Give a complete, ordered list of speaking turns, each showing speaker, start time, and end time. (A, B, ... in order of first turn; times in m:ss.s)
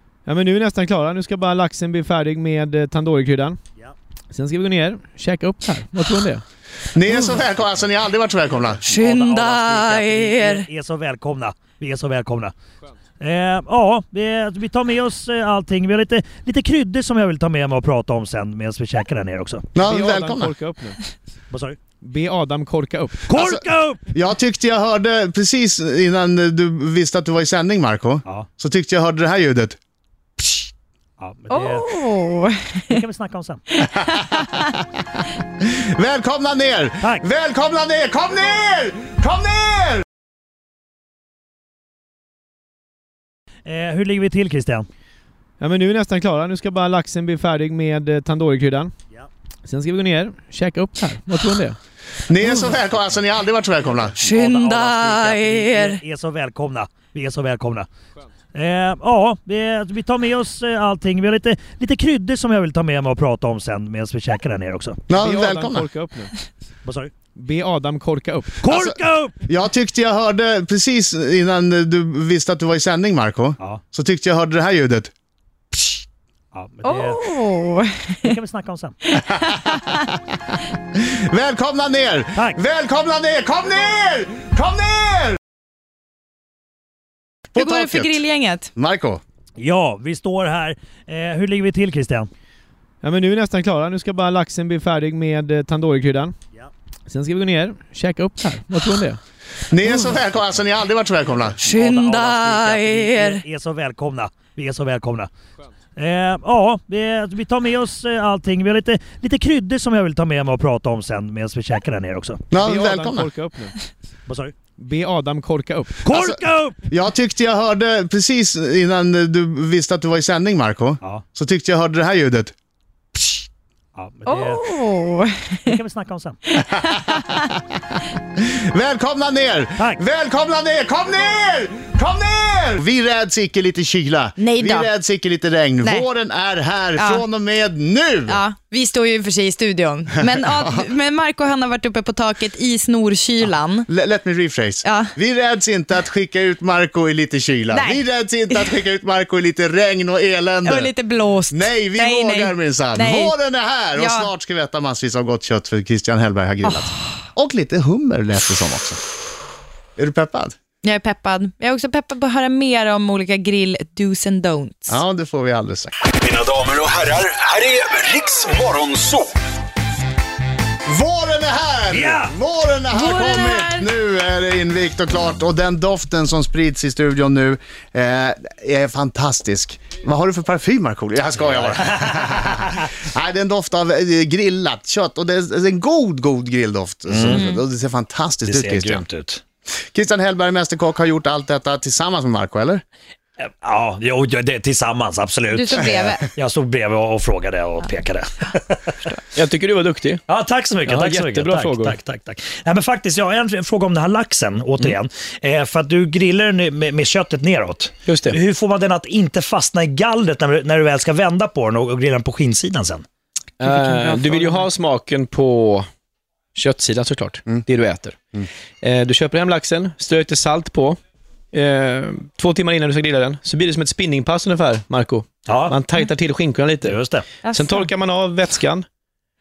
0:00.2-0:03.6 A
0:04.3-0:06.4 A
0:06.9-0:08.8 B
0:08.5-0:12.5 C
0:08.8-0:10.7 D
0:13.2-0:19.7 C
0:19.8-0:20.5 B
0:19.8-0:21.0 A
0:21.5-0:21.8 C
0:22.0-0:23.3 A
0:23.3-0:24.1 C
0:23.3-0:23.6 B
0:24.1-0:29.8 B
0:31.2-0:31.9 C
0:31.5-0:33.0 D
0:32.9-0:33.6 C
0:33.8-0:34.7 D
0:33.9-0:34.6 B
0:35.6-0:40.0 B
0:37.0-0:37.2 C
0:43.6-0:44.9 C
0:45.6-0:48.9 A
0:49.6-0:51.8 A
0:52.3-0:54.2 B
0:53.8-0:57.9 C
0:54.2-0:56.0 D
0:58.5-1:05.0 C
1:05.1-1:05.9 B
1:05.1-1:06.3 A
1:06.8-1:07.1 C
1:07.4-1:08.6 A
1:08.6-1:09.5 C
1:08.7-1:15.1 B
1:16.5-1:17.2 C
1:16.8-1:18.3 D
1:18.2-1:19.0 C
1:19.1-1:20.1 D
1:20.9-1:25.4 B
1:27.5-1:28.2 B
1:27.6-1:28.7 D
1:28.8-1:29.2 B
1:29.6-1:32.3 C
1:33.0-1:36.4 A
1:37.1-1:39.2 A
1:39.7-1:41.6 B
1:41.6-1:45.3 C
1:41.6-1:43.4 D
1:46.0-1:52.4 C
1:52.5-1:53.3 B
1:52.5-1:53.8 A
1:54.3-1:54.5 C
1:54.8-1:56.0 A
1:56.0-1:56.9 C
1:56.1-1:56.4 B
1:56.9-2:02.5 B
2:04.0-2:04.7 C
2:04.2-2:05.7 D
2:05.7-2:06.4 C
2:06.5-2:07.5 D
2:06.8-2:07.2 B
2:08.4-2:18.4 B
2:09.8-2:10.0 C
2:14.4-2:14.9 D
2:17.0-2:17.2 D
2:18.3-2:23.9 D
2:20.3-2:20.9 B
2:23.9-2:30.9 B
2:24.8-2:25.1 D
2:27.7-2:28.0 D
2:30.6-2:33.3 D
2:31.5-2:39.0 B
2:34.0-2:34.3 D
2:36.6-2:37.1 D
2:40.0-2:40.6 B
2:40.8-2:45.0 D
2:44.9-2:46.0 B
2:46.1-2:49.4 E
2:50.9-3:09.0 B
2:51.9-2:52.3 C
2:52.9-2:53.9 D
3:01.4-3:02.7 C
3:07.1-3:07.4 C
3:07.3-3:07.6 D
3:08.4-3:09.4 C
3:09.9-3:12.8 B
3:13.4-3:18.9 C
3:15.5-3:16.2 D
3:19.3-3:20.2 F
3:20.3-3:33.0 C
3:20.9-3:22.0 F
3:28.0-3:28.4 F
3:33.6-3:35.9 F
3:33.6-3:34.7 D
3:36.5-3:38.3 F
3:38.8-3:41.0 F
3:41.5-3:47.0 F
3:45.5-3:45.8 C
3:46.8-3:47.3 C
3:47.4-3:47.9 D
3:47.5-3:48.9 F